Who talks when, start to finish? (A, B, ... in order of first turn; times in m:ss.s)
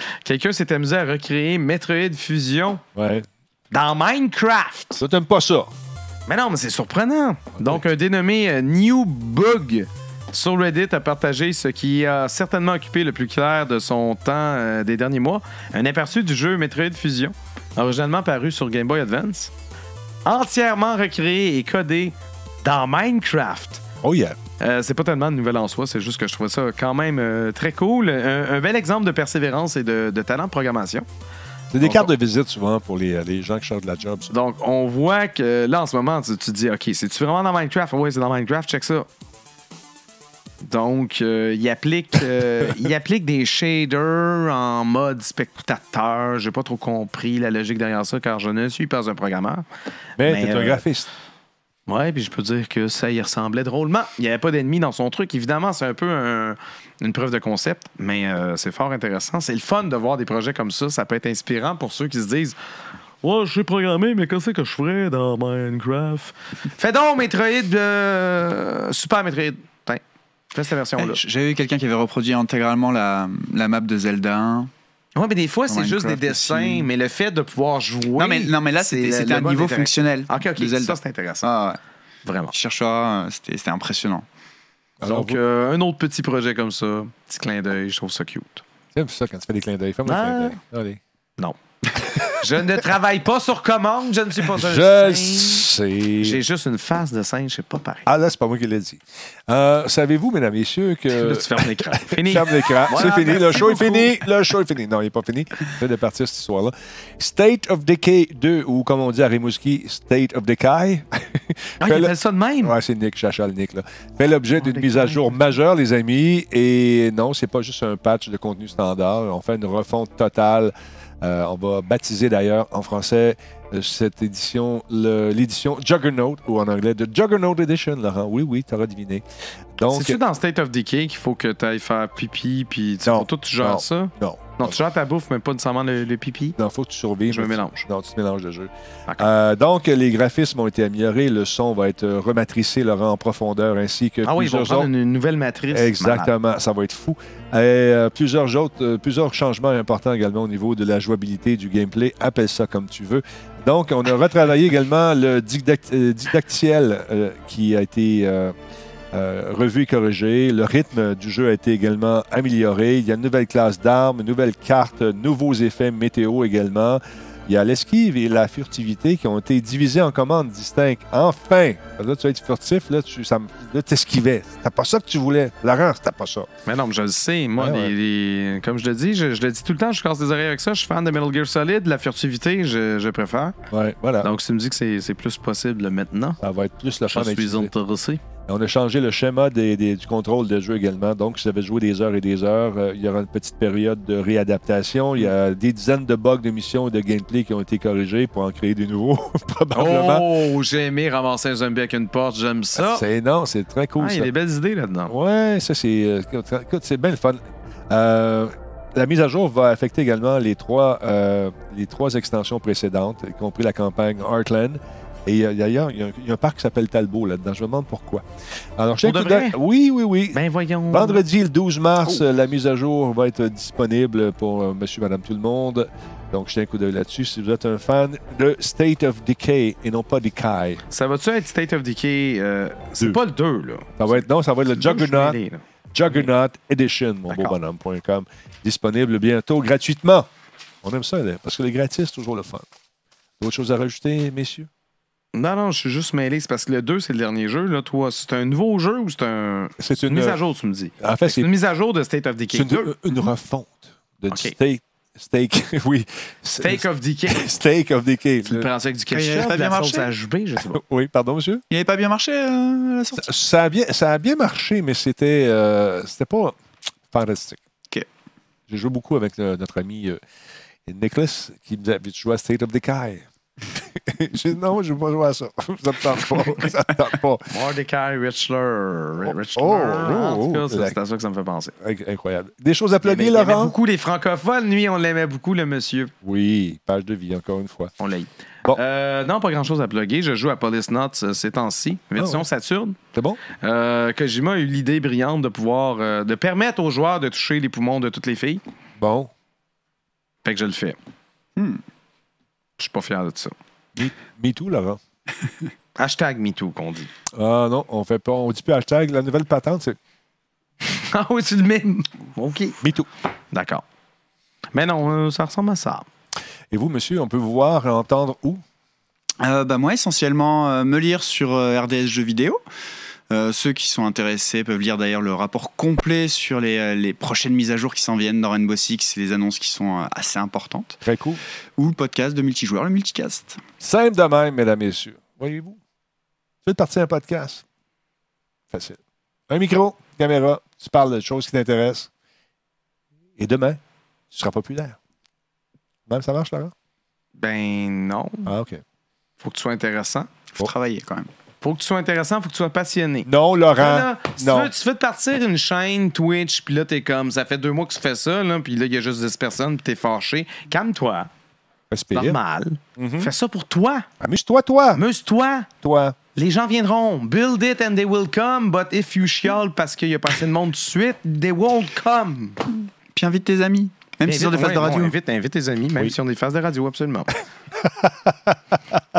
0:00.2-0:02.8 A
0:03.0-0:03.3 B
0:03.7-0:05.0 A
0:05.0-0:05.7 B
0:06.3-0:19.5 A
0:07.6-0:07.8 B
0:20.2-0:23.8 A
0:24.0-0:24.4 B
0:24.6-0:31.1 A
0:31.7-0:34.3 B
0:31.8-0:32.1 A
0:34.3-0:39.1 A
0:40.6-0:49.6 A
0:50.2-0:51.1 B
0:50.2-0:50.9 A
0:51.9-1:02.6 A
1:03.2-1:10.0 A
1:10.5-1:11.2 A
1:11.0-1:14.7 C
1:15.2-1:21.5 A
1:15.7-1:16.9 C
1:18.2-1:21.8 C
1:22.2-1:22.5 A
1:22.5-1:24.3 C
1:25.0-1:25.4 B
1:25.0-1:28.6 A
1:28.9-1:31.0 B
1:30.0-1:30.6 A
1:32.0-1:32.4 B
1:32.4-1:38.1 A
1:34.5-1:36.4 B
1:38.1-2:09.2 B
1:41.1-1:44.2 A
1:51.8-1:52.8 A
1:54.6-1:55.6 A
2:09.8-2:10.2 B
2:09.9-2:16.6 A
2:13.0-2:14.8 B
2:16.6-2:24.9 B
2:17.3-2:17.9 A
2:24.2-2:26.3 A
2:25.7-2:38.6 B
2:39.1-2:56.5 B
2:56.7-3:03.6 A
2:57.6-2:57.9 B
3:03.7-3:04.3 B
3:04.2-3:06.4 A
3:06.4-3:07.7 B
3:07.1-3:08.2 A
3:08.5-3:20.3 B
3:19.7-3:23.0 A
3:22.8-3:24.3 B
3:24.0-3:25.1 A
3:25.1-3:38.2 B
3:38.8-3:50.8 B
3:39.0-3:39.6 A
3:40.3-3:41.2 A
3:50.9-3:56.3 A
3:54.0-3:55.4 B
3:55.9-4:00.3 B
3:57.3-3:57.6 A
4:00.8-4:02.6 B
4:03.4-4:04.7 B
4:05.3-4:13.2 A
4:09.8-4:10.4 B
4:11.0-4:11.5 B
4:12.5-4:18.7 B
4:14.3-4:14.6 A
4:16.6-4:17.5 A
4:18.5-4:20.8 A
4:19.1-4:20.1 C
4:20.7-4:21.6 B
4:21.7-4:23.3 C
4:23.2-4:26.6 B
4:27.1-4:27.6 B
4:28.7-4:30.2 B
4:30.9-4:33.3 B
4:34.0-4:37.4 B
4:37.5-4:41.7 A
4:39.2-4:41.0 B
4:41.8-4:43.8 B
4:43.0-4:46.1 A
4:46.2-4:47.9 B
4:48.0-4:53.0 A
4:52.2-4:52.5 B
4:53.1-4:53.4 B
4:53.6-4:58.6 A
4:59.0-4:59.3 B
5:00.4-5:01.0 A
5:01.6-5:01.8 C
5:02.8-5:03.5 A
5:04.0-5:05.0 B
5:06.0-5:07.1 A
5:07.4-5:10.0 B
5:10.8-5:12.8 A
5:12.8-5:13.1 B
5:13.5-5:13.8 A
5:14.7-5:16.0 A
5:16.7-5:18.6 B
5:19.4-5:22.6 C
5:23.3-5:31.0 C
5:31.0-5:31.4 B
5:31.8-5:33.6 C
5:33.8-5:35.8 B
5:36.6-5:37.6 B
5:38.7-5:39.0 B
5:39.5-5:42.1 B
5:43.4-5:43.8 B
5:44.3-5:45.0 B
5:46.1-5:46.7 B
5:47.4-5:48.5 A
5:48.5-5:48.8 B
5:49.4-5:50.3 A
5:50.6-5:51.3 C
5:51.6-6:01.3 A
5:53.2-5:54.7 B
6:01.9-6:02.4 B
6:02.1-6:04.1 A
6:03.0-6:03.3 B
6:04.2-6:05.0 B
6:04.9-6:05.7 A
6:05.8-6:06.2 B
6:06.4-6:12.6 A
6:13.1-6:15.2 C
6:14.3-6:17.4 A
6:17.8-6:19.0 B